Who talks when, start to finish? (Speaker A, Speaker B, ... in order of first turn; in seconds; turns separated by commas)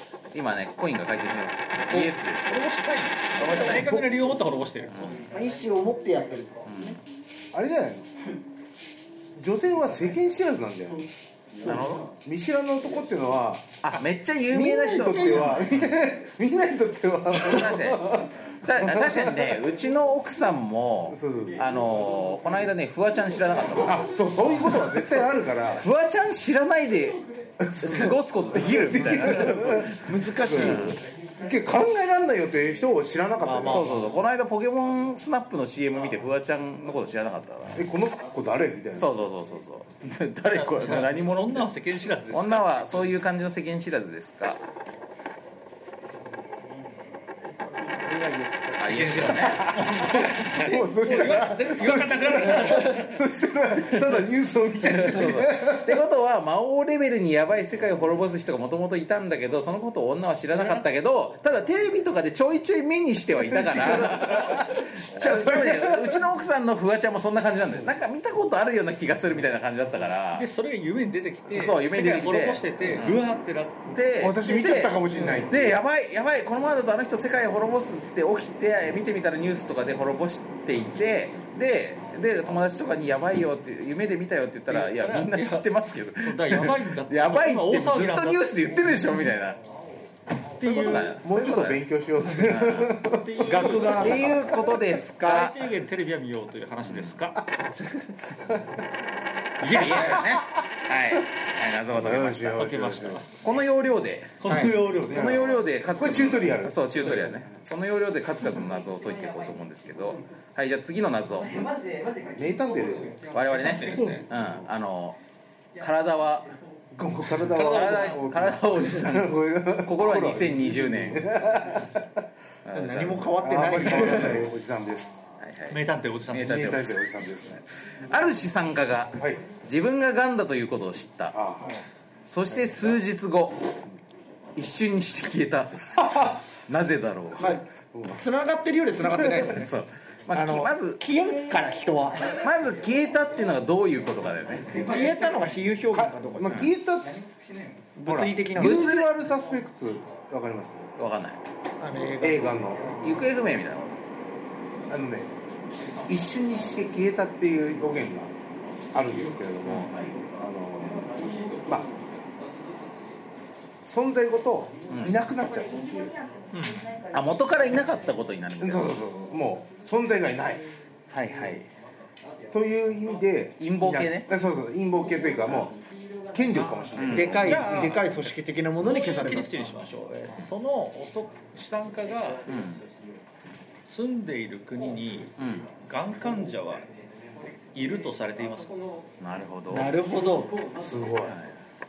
Speaker A: 0.3-2.6, Speaker B: 1.9-5.2, Speaker A: 3.4-4.0, Speaker A: 4.9-5.2, Speaker C: 5.3-7.0, Speaker A: 6.7-7.0, Speaker D: 7.5-8.1, Speaker D: 9.3-11.1, Speaker A: 11.6-12.1, Speaker D: 11.6-13.7, Speaker A: 13.8-15.9, Speaker D: 14.5-19.6, Speaker B: 14.8-15.6, Speaker A: 17.3-24.1, Speaker D: 21.1-21.6, Speaker D: 23.8-25.8, Speaker A: 25.8-31.0, Speaker D: 27.6-34.0, Speaker C: 30.0-31.0, Speaker B: 33.4-34.1, Speaker A: 33.5-37.8, Speaker D: 37.7-39.1, Speaker A: 38.9-41.7, Speaker B: 40.5-43.2, Speaker A: 42.3-44.6, Speaker C: 48.2-48.5, Speaker A: 48.8-49.8, Speaker B: 48.8-53.1, Speaker D: 49.8-56.0, Speaker A: 53.9-54.2, Speaker A: 54.8-70.5, Speaker B: 60.5-60.8, Speaker D: 63.4-66.2, Speaker B: 70.3-73.9, Speaker A: 71.5-73.2, Speaker A: 73.9-89.6, Speaker D: 74.2-75.8, Speaker B: 84.7-85.7, Speaker B: 86.2-88.5, Speaker B: 90.6-91.2, Speaker A: 90.6-91.8, Speaker D: 91.2-93.4, Speaker A: 92.4-95.6, Speaker B: 93.2-94.3, Speaker C: 93.4-94.6, Speaker B: 95.2-97.4, Speaker A: 96.8-97.1, Speaker B: 99.6-100.3, Speaker A: 99.7-102.6, Speaker D: 99.8-100.4, Speaker D: 101.9-103.2, Speaker B: 102.5-103.3, Speaker A: 103.4-104.4, Speaker B: 104.4-105.3, Speaker C: 104.5-104.7, Speaker D: 104.9-107.3, Speaker A: 105.0-111.5, Speaker D: 112.3-113.2, Speaker A: 113.3-115.2, Speaker B: 113.4-114.2, Speaker A: 115.8-116.5, Speaker D: 117.0-122.2, Speaker A: 117.4-121.2, Speaker A: 122.7-124.3, Speaker C: 122.7-124.4, Speaker D: 123.4-125.2, Speaker A: 125.4-127.1, Speaker B: 125.7-126.8, Speaker D: 126.4-127.6, Speaker A: 128.1-131.3, Speaker D: 129.2-129.4, Speaker D: 131.3-131.7, Speaker A: 132.2-133.6, Speaker A: 134.6-137.5, Speaker D: 136.0-136.3, Speaker C: 137.4-137.6, Speaker D: 137.8-138.2, Speaker C: 138.1-139.7, Speaker D: 139.0-139.5, Speaker A: 139.5-141.0, Speaker C: 140.3-142.4, Speaker A: 142.3-144.8, Speaker C: 144.8-146.6, Speaker D: 145.9-147.1, Speaker C: 147.9-149.1, Speaker D: 148.0-150.9, Speaker A: 148.6-149.1, Speaker A: 150.9-151.4, Speaker C: 151.8-152.7, Speaker D: 152.2-152.9, Speaker A: 152.9-153.9, Speaker D: 154.9-155.3, Speaker D: 156.1-158.3, Speaker D: 158.9-161.9, Speaker A: 159.6-160.0, Speaker D: 163.8-166.1, Speaker A: 164.9-165.2, Speaker B: 166.5-166.9, Speaker A: 167.1-169.0, Speaker D: 168.6-170.7, Speaker A: 171.1-171.7, Speaker D: 172.5-175.7, Speaker A: 173.6-174.3, Speaker D: 176.3-177.7, Speaker A: 176.9-177.5, Speaker C: 177.0-179.5, Speaker B: 177.3-182.4, Speaker A: 182.4-182.8, Speaker B: 183.8-186.9, Speaker A: 185.4-185.7, Speaker B: 187.7-188.7, Speaker A: 189.2-189.9, Speaker C: 189.7-190.6, Speaker D: 190.8-191.3, Speaker A: 191.2-191.6